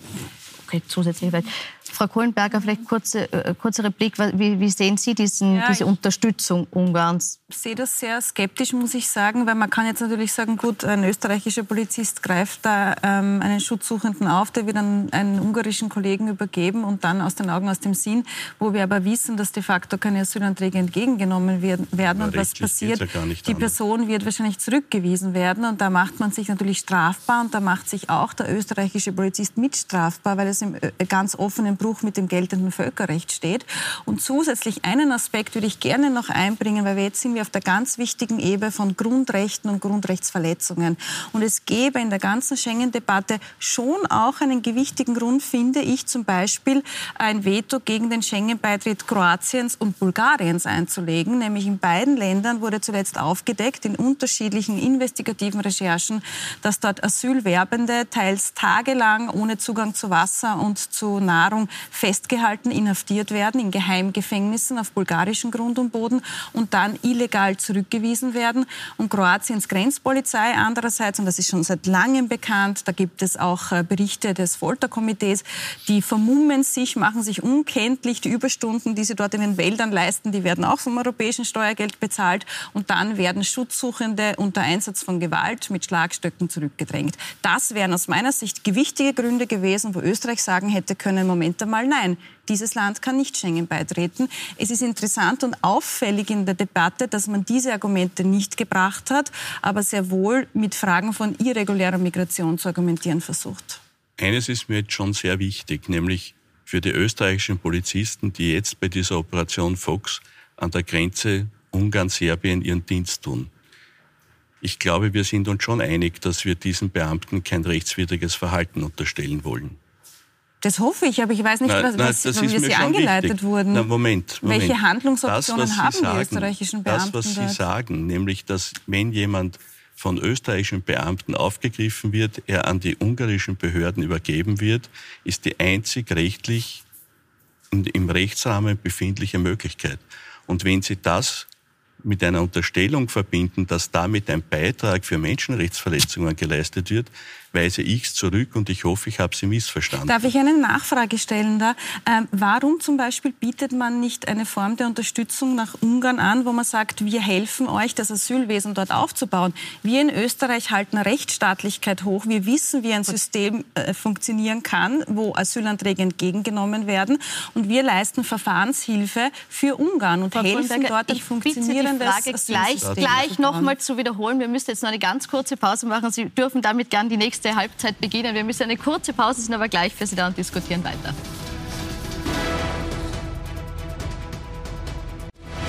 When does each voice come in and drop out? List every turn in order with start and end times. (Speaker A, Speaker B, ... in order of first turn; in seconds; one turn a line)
Speaker A: 0.7-7.4
Speaker B: 5.5-6.0
Speaker B: 7.5-103.8
Speaker C: 22.0-23.8
Speaker C: 104.2-113.5
Speaker C: 114.6-119.8
Speaker B: 120.6-123.9
Speaker C: 121.7-136.8
Speaker B: 124.4-127.6
Speaker C: 137.7-141.5
Speaker C: 142.0-150.3
Speaker B: 150.1-173.8
Speaker A: 170.3-181.2
Speaker C: 172.5-173.2